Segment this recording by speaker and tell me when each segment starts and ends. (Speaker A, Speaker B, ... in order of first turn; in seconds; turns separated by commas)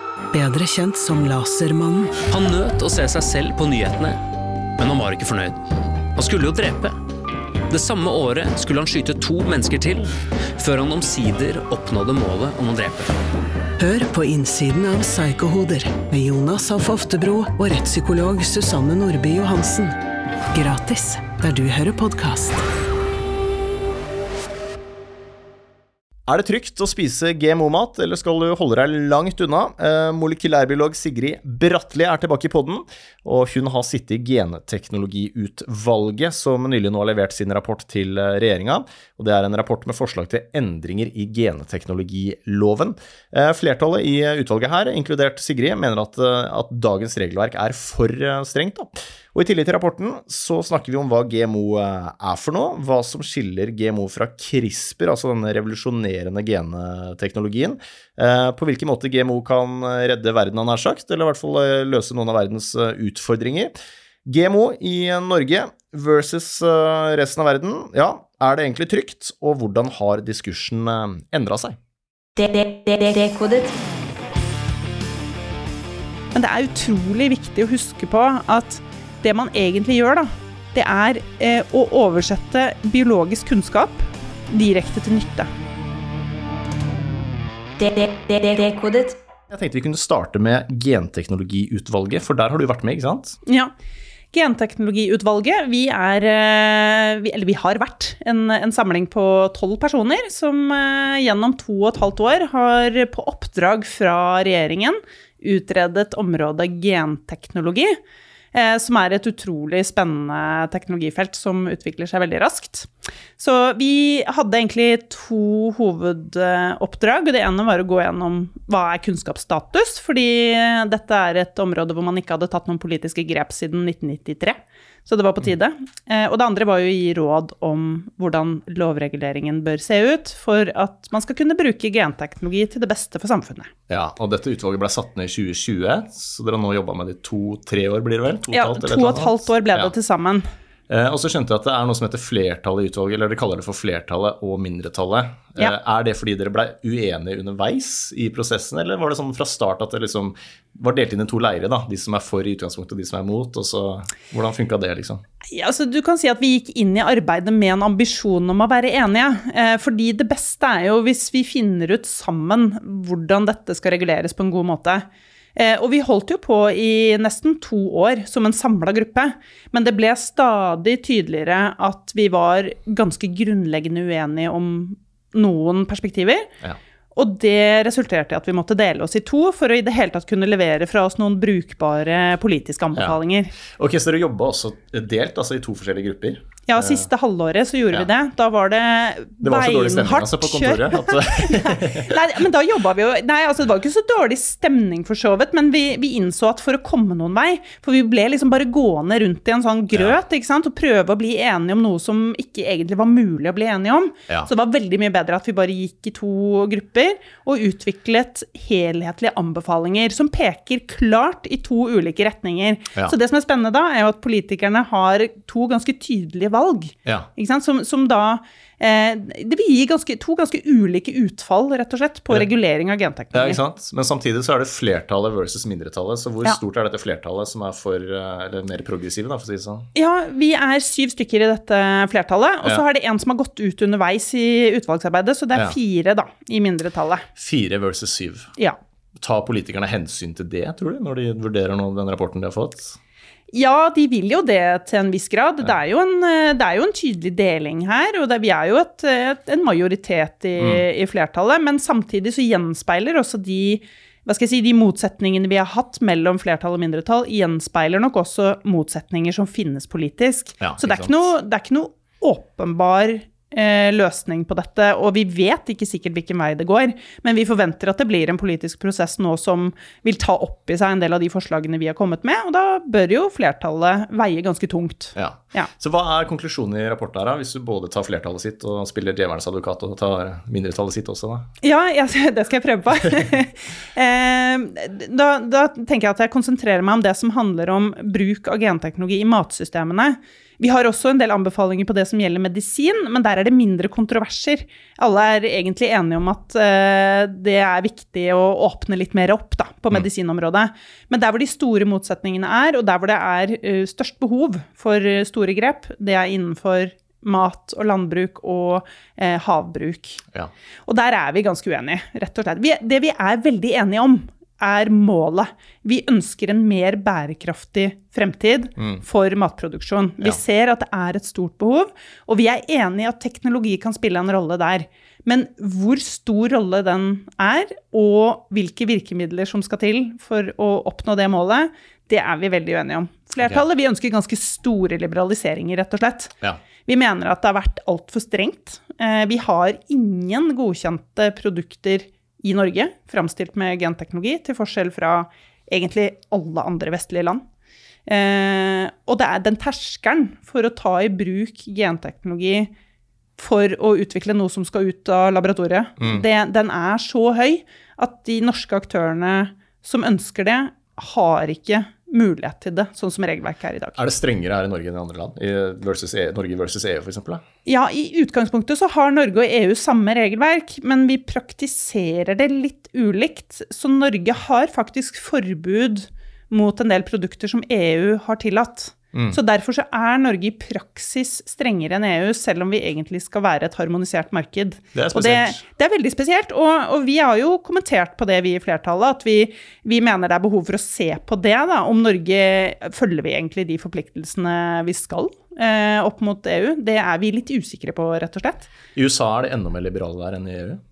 Speaker A: 0.3-2.2, Speaker B: 2.3-4.2, Speaker B: 4.8-5.6, Speaker B: 6.2-7.0, Speaker B: 7.7-13.1, Speaker A: 13.8-19.9, Speaker A: 20.5-22.6, Speaker C: 26.3-63.7, Speaker C: 64.2-71.8, Speaker D: 72.4-73.7, Speaker E: 76.3-85.5, Speaker D: 87.8-89.2, Speaker C: 89.5-93.4, Speaker E: 93.5-93.7, Speaker E: 94.3-108.0, Speaker E: 108.5-133.7, Speaker C: 133.9-139.9, Speaker E: 138.5-140.4, Speaker C: 140.9-155.2, Speaker E: 155.5-176.5, Speaker E: 177.1-183.5, Speaker C: 182.9-187.0, Speaker E: 186.7-223.6, Speaker C: 189.4-192.2, Speaker C: 223.3-229.9, Speaker E: 229.9-237.3, Speaker C: 237.3-238.5, Speaker C: 239.2-243.0, Speaker E: 243.5-275.7, Speaker C: 250.6-250.8, Speaker C: 260.6-261.1, Speaker C: 275.1-281.5, Speaker E: 281.6-310.2, Speaker E: 310.9-336.3, Speaker E: 336.9-347.4, Speaker E: 348.1-352.7, Speaker E: 353.4-364.0, Speaker C: 356.0-356.2, Speaker C: 364.0-367.4, Speaker E: 367.6-398.7, Speaker C: 379.1-379.4, Speaker C: 384.9-385.6, Speaker C: 398.9-400.8